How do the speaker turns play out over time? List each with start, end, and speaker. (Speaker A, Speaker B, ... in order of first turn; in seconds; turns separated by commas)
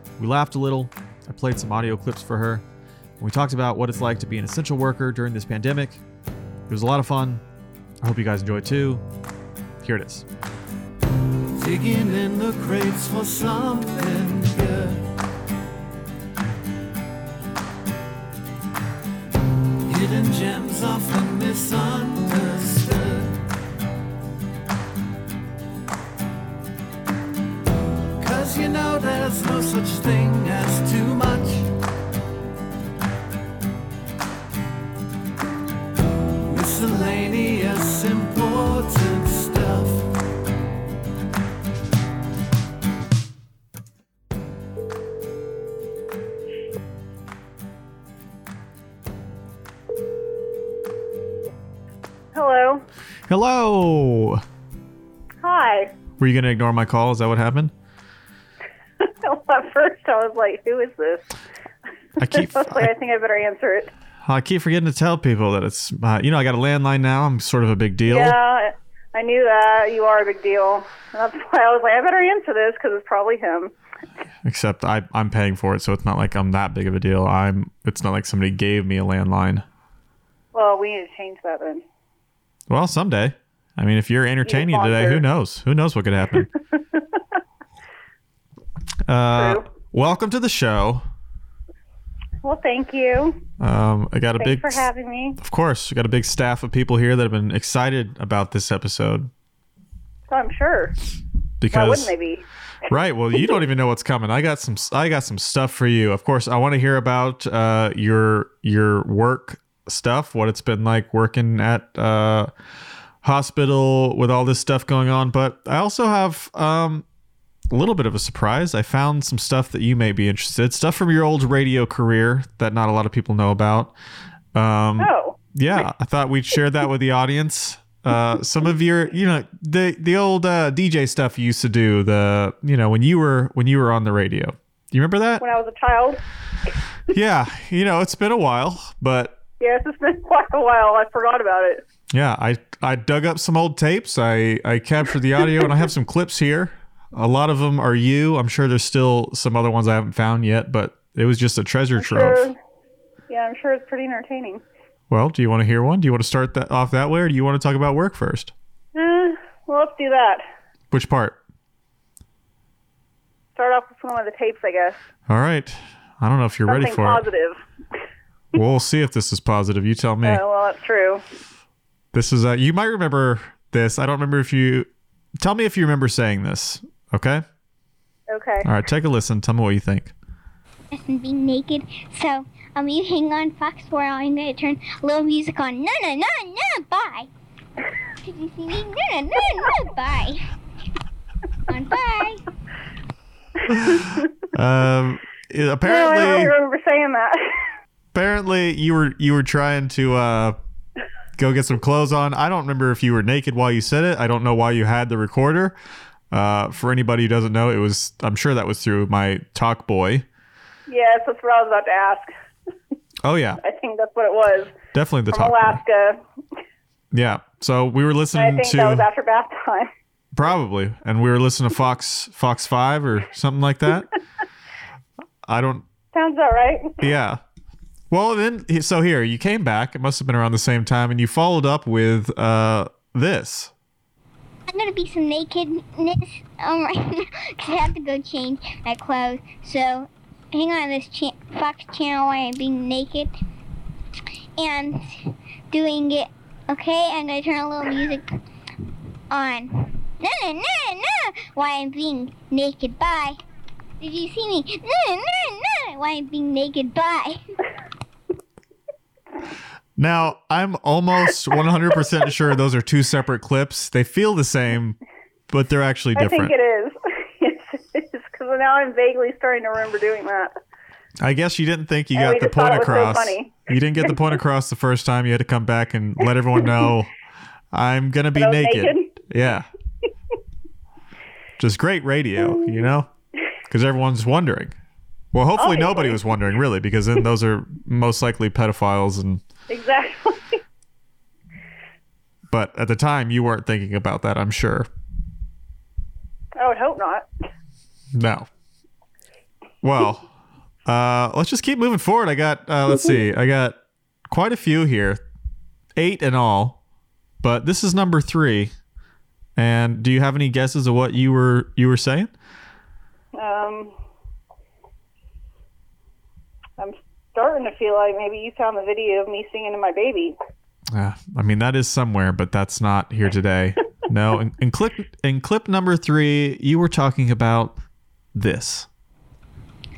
Speaker A: 0.2-2.6, Speaker A: 3.2-6.0, Speaker A: 6.7-7.4, Speaker A: 8.0-9.0, Speaker A: 9.8-10.3, Speaker B: 11.5-15.1, Speaker B: 19.9-23.4, Speaker B: 28.2-31.7, Speaker B: 36.5-40.1, Speaker C: 52.3-52.8, Speaker A: 53.3-54.4, Speaker C: 55.4-55.9, Speaker A: 56.2-57.7, Speaker C: 59.0-61.3, Speaker C: 62.2-63.9, Speaker A: 62.2-62.9, Speaker A: 64.2-68.4, Speaker C: 68.1-73.7, Speaker A: 74.5-79.7, Speaker C: 80.5-81.8, Speaker A: 82.7-86.5, Speaker C: 84.5-85.2, Speaker C: 86.7-87.2, Speaker A: 89.1-91.0, Speaker C: 89.3-89.7, Speaker C: 92.4-93.4, Speaker A: 93.6-94.8, Speaker C: 94.4-95.4, Speaker A: 95.4-99.3, Speaker C: 100.3-101.0, Speaker A: 101.6-102.1, Speaker C: 101.7-102.5, Speaker A: 102.9-112.5, Speaker A: 113.2-117.0, Speaker A: 117.7-123.9, Speaker A: 124.5-135.4, Speaker C: 125.0-125.4, Speaker C: 135.4-136.2, Speaker A: 137.1-139.4, Speaker C: 139.6-141.8, Speaker A: 142.1-152.5, Speaker C: 152.0-152.6, Speaker C: 153.3-154.6, Speaker A: 155.1-158.5, Speaker C: 158.9-160.4, Speaker A: 160.9-161.4, Speaker C: 163.6-165.0, Speaker A: 165.3-167.2, Speaker C: 166.7-167.6, Speaker A: 168.5-170.4, Speaker C: 170.2-171.2, Speaker A: 172.1-174.9, Speaker A: 175.4-177.4, Speaker C: 178.3-178.7, Speaker A: 178.6-180.1, Speaker D: 180.9-187.3, Speaker D: 188.2-190.5, Speaker D: 191.7-192.4, Speaker A: 193.7-196.5, Speaker C: 193.8-194.2, Speaker C: 195.8-197.7, Speaker A: 198.1-200.6, Speaker A: 201.4-205.8, Speaker A: 206.3-210.2, Speaker C: 210.9-212.3, Speaker A: 213.2-213.6, Speaker C: 213.6-214.8, Speaker A: 214.9-215.8, Speaker C: 215.3-216.2, Speaker A: 217.1-219.1, Speaker C: 218.3-219.9, Speaker A: 220.3-224.1, Speaker A: 225.4-225.8, Speaker C: 226.1-227.0, Speaker A: 227.0-227.4, Speaker A: 228.1-233.7, Speaker D: 234.7-243.3, Speaker D: 244.6-248.3, Speaker D: 249.3-253.4, Speaker D: 254.0-257.4, Speaker A: 260.0-265.0, Speaker A: 265.5-266.5, Speaker C: 266.2-270.5, Speaker A: 271.2-277.1, Speaker C: 272.1-274.1, Speaker A: 277.7-279.7, Speaker C: 278.4-279.2, Speaker A: 281.6-283.1, Speaker C: 282.4-282.9, Speaker A: 283.7-284.7, Speaker A: 285.3-289.4, Speaker C: 285.6-286.2, Speaker C: 289.7-290.6, Speaker A: 292.5-294.9, Speaker C: 296.6-297.3, Speaker A: 298.1-298.5, Speaker A: 299.8-300.2, Speaker A: 300.9-303.8, Speaker A: 304.3-305.2, Speaker A: 306.0-306.8, Speaker A: 307.4-308.7, Speaker A: 309.6-312.3, Speaker C: 313.4-313.9, Speaker C: 316.8-320.4, Speaker A: 320.9-327.8, Speaker A: 328.3-328.9